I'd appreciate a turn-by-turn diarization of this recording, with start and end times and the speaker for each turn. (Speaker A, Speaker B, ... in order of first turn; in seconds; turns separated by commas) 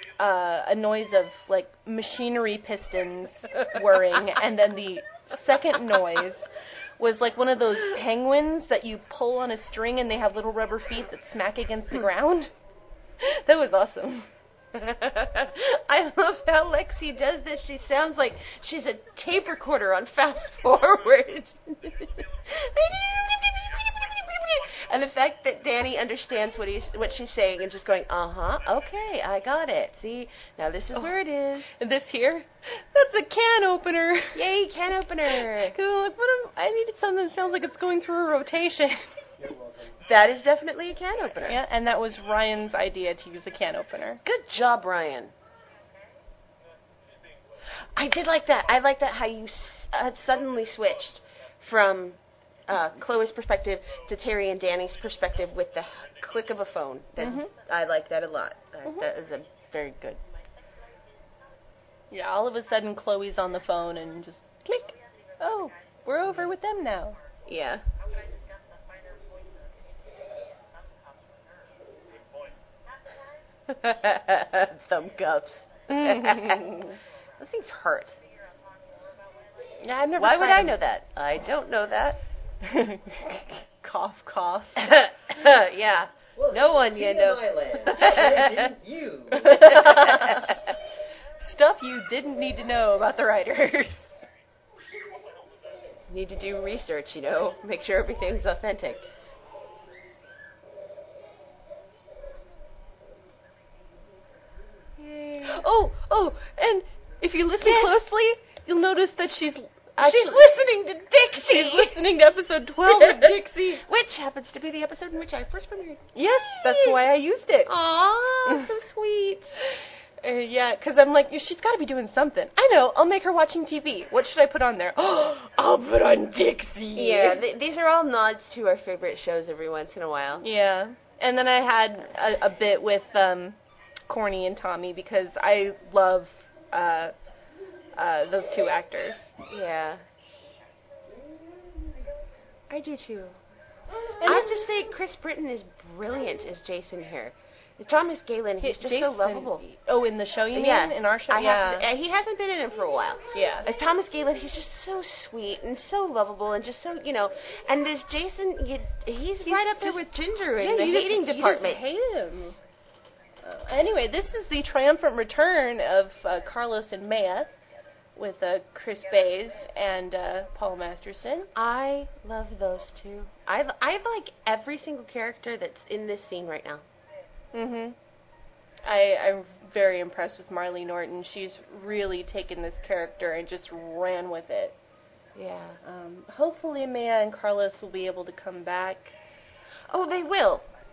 Speaker A: 0.2-12.5, Speaker A: 13.2-14.3, Speaker B: 14.7-22.3, Speaker A: 22.5-24.6, Speaker B: 24.6-31.7, Speaker A: 31.7-34.4, Speaker B: 34.3-35.8, Speaker A: 35.3-39.2, Speaker B: 40.0-41.6, Speaker A: 41.4-44.2, Speaker B: 44.2-45.3, Speaker B: 47.7-60.2, Speaker A: 57.2-57.5, Speaker A: 62.1-67.2, Speaker B: 67.5-67.8, Speaker C: 68.4-69.5, Speaker B: 73.7-78.2, Speaker A: 75.9-77.0, Speaker A: 79.8-80.8, Speaker B: 80.2-82.2, Speaker A: 82.6-84.8, Speaker B: 84.8-88.8, Speaker C: 86.6-89.3, Speaker A: 87.9-88.4, Speaker A: 89.3-90.7, Speaker B: 89.5-90.5, Speaker A: 91.4-94.2, Speaker B: 96.1-99.0, Speaker A: 105.0-110.7, Speaker B: 107.6-107.9, Speaker B: 110.0-112.0, Speaker A: 111.3-113.8, Speaker B: 113.0-116.0, Speaker A: 116.1-117.7, Speaker B: 116.6-117.0, Speaker B: 117.6-119.5, Speaker A: 119.6-127.4, Speaker B: 126.9-130.4, Speaker A: 130.4-133.6, Speaker A: 134.1-137.1, Speaker A: 137.9-139.3, Speaker B: 139.4-140.0, Speaker B: 142.7-143.4, Speaker A: 144.2-144.6, Speaker B: 144.2-149.6, Speaker A: 148.6-151.9, Speaker B: 150.5-161.8, Speaker A: 153.3-153.7, Speaker A: 159.4-160.0, Speaker A: 160.6-162.6, Speaker A: 163.4-167.5, Speaker A: 168.2-171.5, Speaker B: 171.5-176.8, Speaker A: 177.5-177.9, Speaker A: 178.8-184.7, Speaker B: 185.3-185.8, Speaker A: 185.8-189.1, Speaker B: 189.9-190.7